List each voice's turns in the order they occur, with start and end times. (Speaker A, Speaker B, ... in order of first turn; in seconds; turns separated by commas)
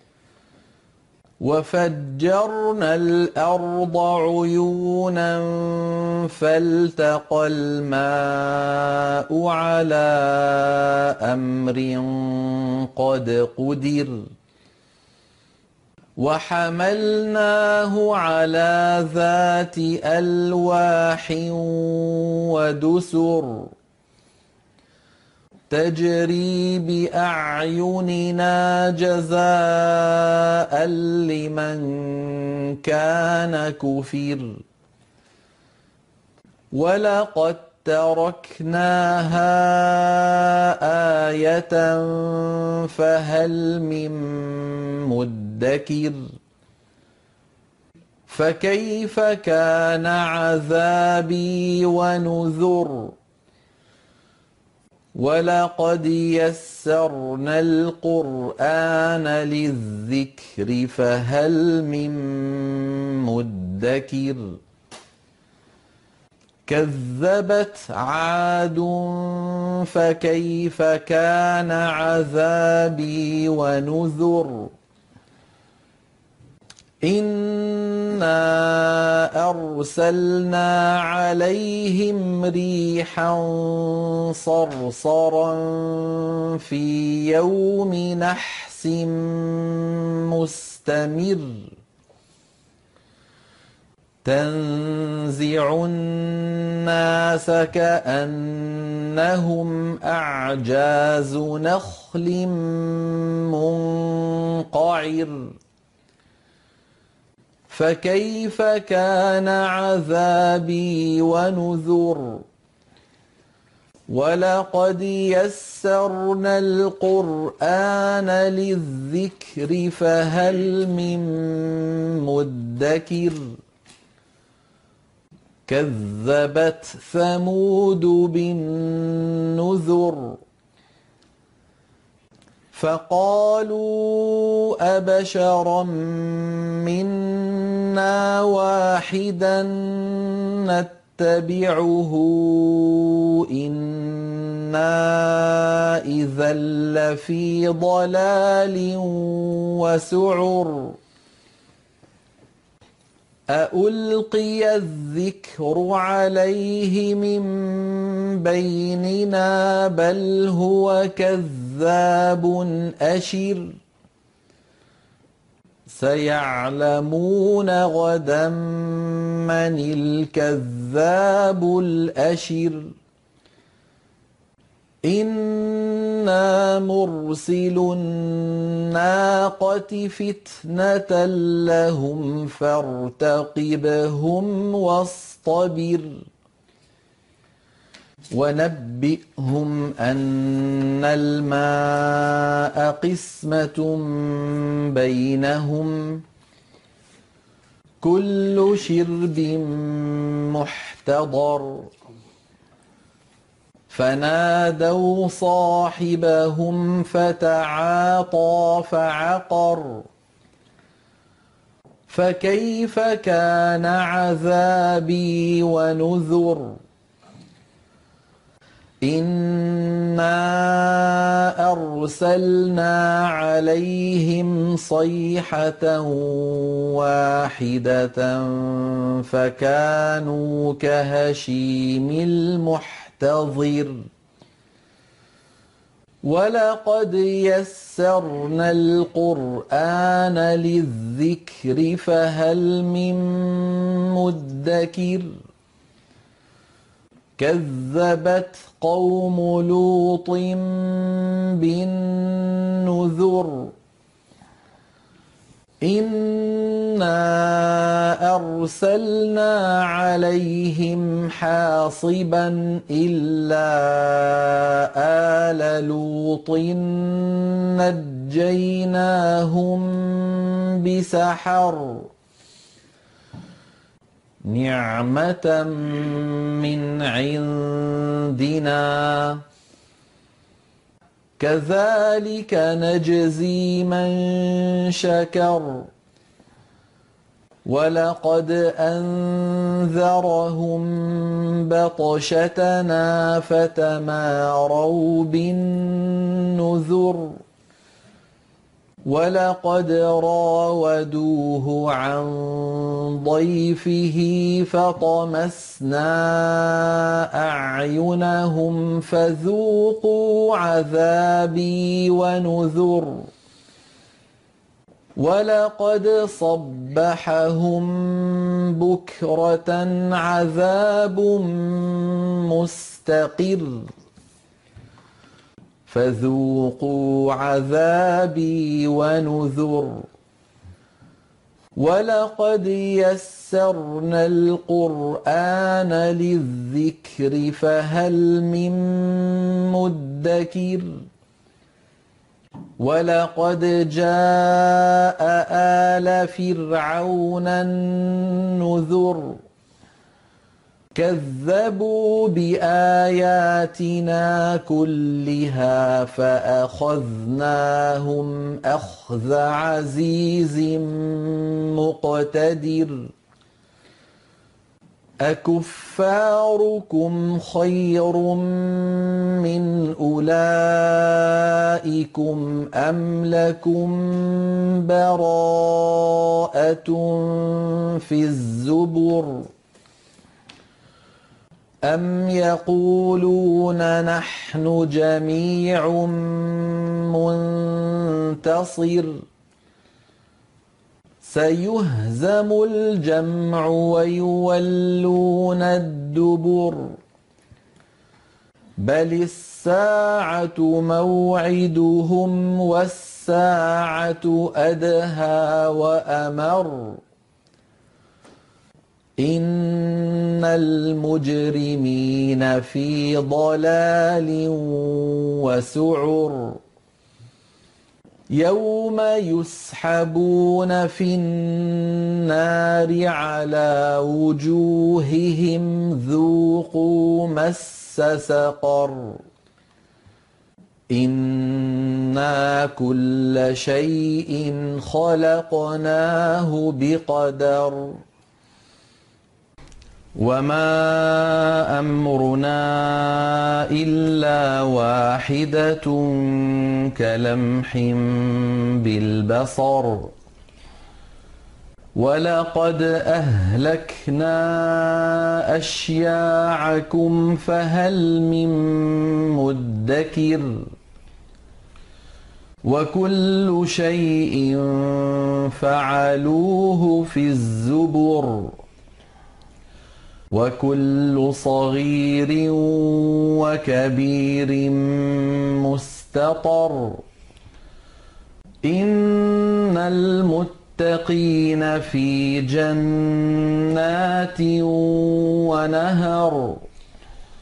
Speaker A: 1.4-14.2, Speaker A: 16.2-23.7, Speaker A: 25.7-34.6, Speaker A: 36.7-46.2, Speaker A: 48.3-53.2, Speaker A: 55.1-64.6, Speaker A: 66.7-74.7, Speaker A: 77.0-91.7, Speaker A: 94.2-105.5, Speaker A: 107.7-112.5, Speaker A: 114.1-123.5, Speaker A: 125.7-130.4, Speaker A: 132.7-151.0, Speaker A: 153.5-163.8, Speaker A: 165.9-172.9, Speaker A: 175.0-186.3, Speaker A: 188.3-196.2, Speaker A: 198.0-201.9, Speaker A: 203.9-210.1, Speaker A: 212.1-216.8, Speaker A: 219.0-234.0, Speaker A: 236.2-245.3, Speaker A: 247.4-253.7, Speaker A: 255.8-272.1, Speaker A: 274.5-279.4, Speaker A: 281.4-285.9, Speaker A: 287.6-297.4, Speaker A: 299.1-313.3, Speaker A: 315.2-323.9, Speaker A: 325.9-330.1, Speaker A: 331.8-340.9, Speaker A: 342.8-349.4, Speaker A: 350.9-363.1, Speaker A: 365.2-379.5, Speaker A: 381.9-389.2, Speaker A: 391.2-397.0, Speaker A: 398.8-407.0, Speaker A: 409.2-416.6, Speaker A: 418.4-429.2, Speaker A: 430.9-438.0, Speaker A: 440.2-450.1, Speaker A: 451.9-460.6, Speaker A: 462.6-468.6, Speaker A: 470.3-477.0, Speaker A: 478.6-486.7